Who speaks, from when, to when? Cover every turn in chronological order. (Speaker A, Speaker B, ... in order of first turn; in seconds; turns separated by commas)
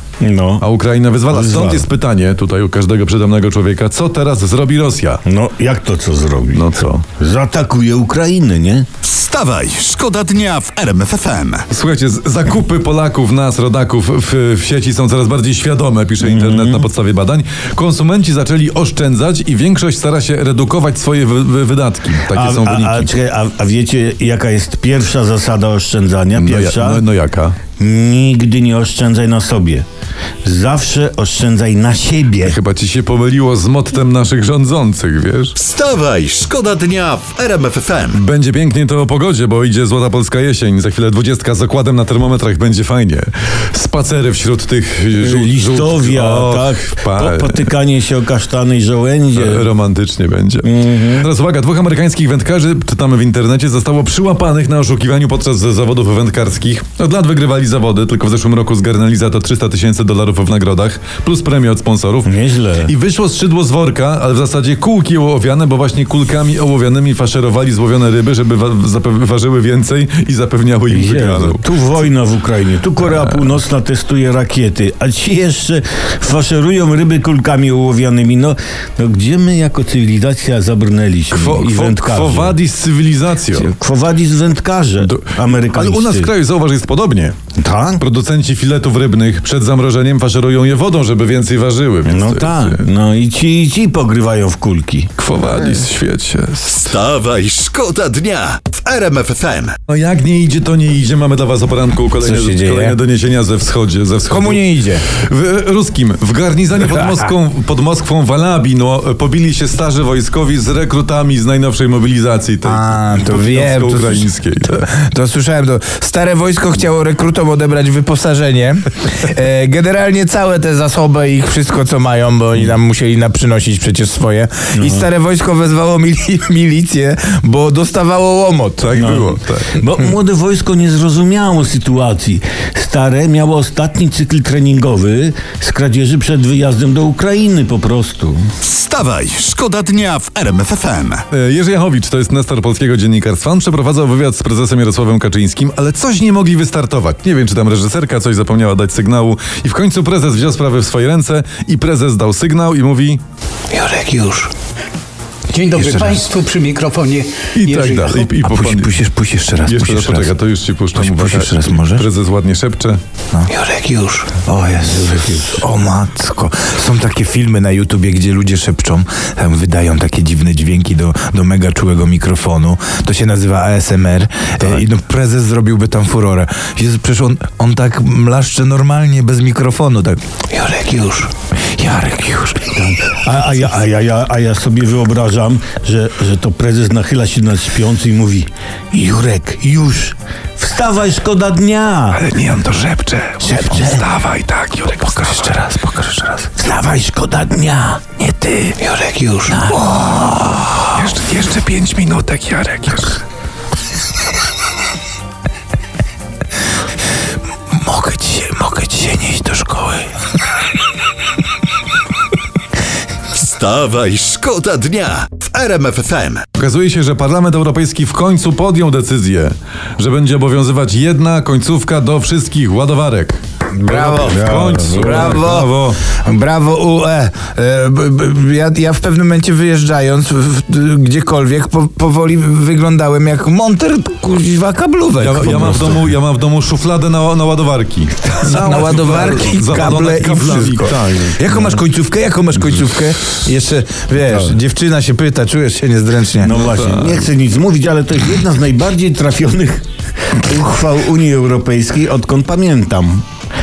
Speaker A: 0.2-0.6, Speaker B: 0.6-5.2, Speaker A: 1.3-1.9, Speaker A: 5.2-6.7, Speaker B: 6.5-7.0, Speaker A: 7.2-8.9, Speaker C: 9.0-11.7, Speaker B: 11.7-23.1, Speaker A: 16.2-16.9, Speaker A: 22.3-27.1, Speaker B: 26.3-27.6, Speaker A: 27.8-29.8, Speaker A: 30.4-32.6, Speaker B: 32.4-35.5, Speaker C: 35.5-38.2, Speaker B: 38.1-47.7, Speaker A: 45.2-49.7, Speaker B: 49.3-62.3, Speaker A: 50.6-51.3, Speaker A: 62.2-62.9, Speaker B: 62.8-71.6, Speaker A: 70.9-82.6, Speaker B: 81.3-83.7, Speaker A: 83.5-86.3, Speaker B: 85.0-87.3, Speaker A: 87.6-88.0, Speaker B: 88.0-92.8, Speaker A: 92.0-95.1, Speaker B: 95.2-97.0, Speaker C: 96.7-99.8, Speaker B: 99.9-114.8, Speaker D: 102.2-102.9, Speaker D: 104.3-105.0, Speaker D: 112.6-129.0, Speaker A: 124.7-125.1, Speaker B: 128.8-129.8, Speaker A: 128.9-138.5, Speaker C: 138.6-141.2, Speaker B: 141.3-153.2, Speaker A: 153.7-154.4, Speaker E: 155.5-158.1, Speaker D: 155.5-156.3, Speaker B: 157.5-158.9, Speaker D: 158.4-160.3, Speaker B: 159.6-163.0, Speaker D: 160.9-162.1, Speaker C: 163.6-164.2, Speaker A: 163.7-164.2, Speaker D: 164.3-180.2, Speaker A: 164.8-165.6, Speaker A: 180.5-181.3, Speaker D: 181.7-182.8, Speaker A: 182.7-192.2, Speaker B: 192.1-195.7, Speaker A: 193.4-194.1, Speaker D: 195.1-196.4, Speaker A: 196.5-198.1, Speaker D: 198.2-198.8, Speaker C: 198.9-199.4, Speaker A: 199.3-199.9, Speaker D: 199.6-200.7, Speaker B: 200.9-203.2, Speaker D: 207.7-210.1, Speaker C: 213.3-216.5, Speaker B: 216.5-226.0, Speaker D: 223.7-236.0, Speaker A: 224.0-225.4, Speaker B: 235.2-241.7, Speaker D: 238.2-246.6, Speaker A: 246.4-253.2, Speaker B: 246.5-247.2